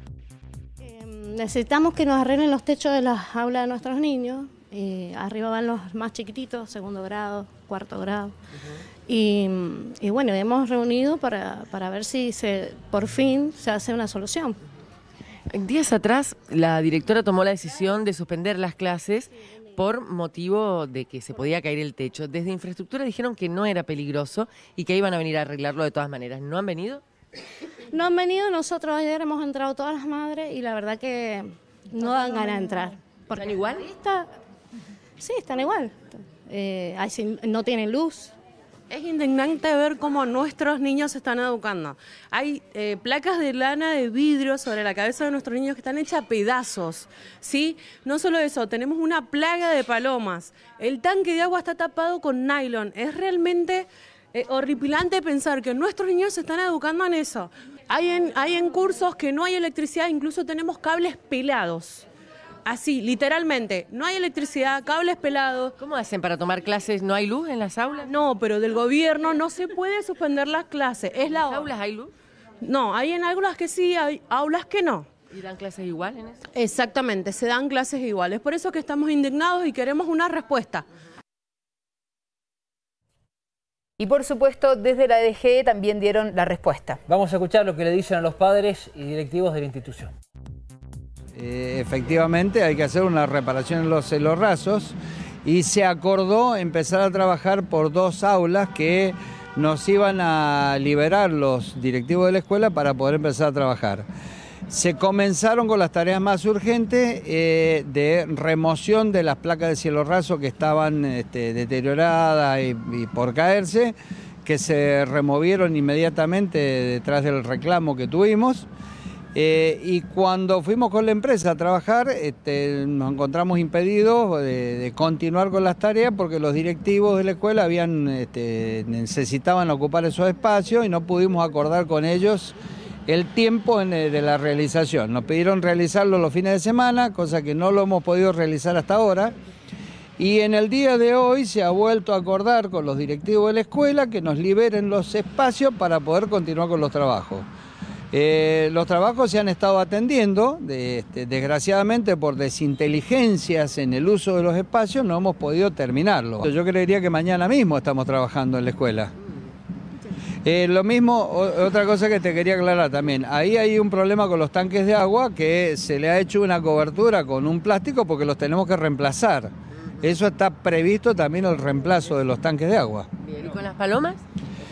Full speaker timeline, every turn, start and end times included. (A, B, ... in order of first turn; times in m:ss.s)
0:00.8-0:08.3 A
0:09.1-0:14.6 A
0:15.5-0:27.0 B
0:27.9-0:34.3 A
0:32.2-0:32.6 B
0:33.3-0:33.9 B
0:35.2-0:38.3 A
0:38.9-1:02.1 C
1:02.7-1:05.8 C
1:05.8-1:08.1 B
1:08.0-1:11.7 C
1:11.4-1:12.1 B
1:12.6-1:15.1 C
1:15.3-1:16.4 B
1:16.5-1:20.8 C
1:24.0-1:27.0 D
1:27.1-1:30.1 E
1:31.4-1:44.1 F
1:44.7-1:58.7 F
1:59.3-2:12.6 F
2:13.1-2:19.3 F
2:20.2-2:27.5 F
2:28.1-2:39.1 F
2:40.4-2:53.1 F
2:53.2-2:54.2 B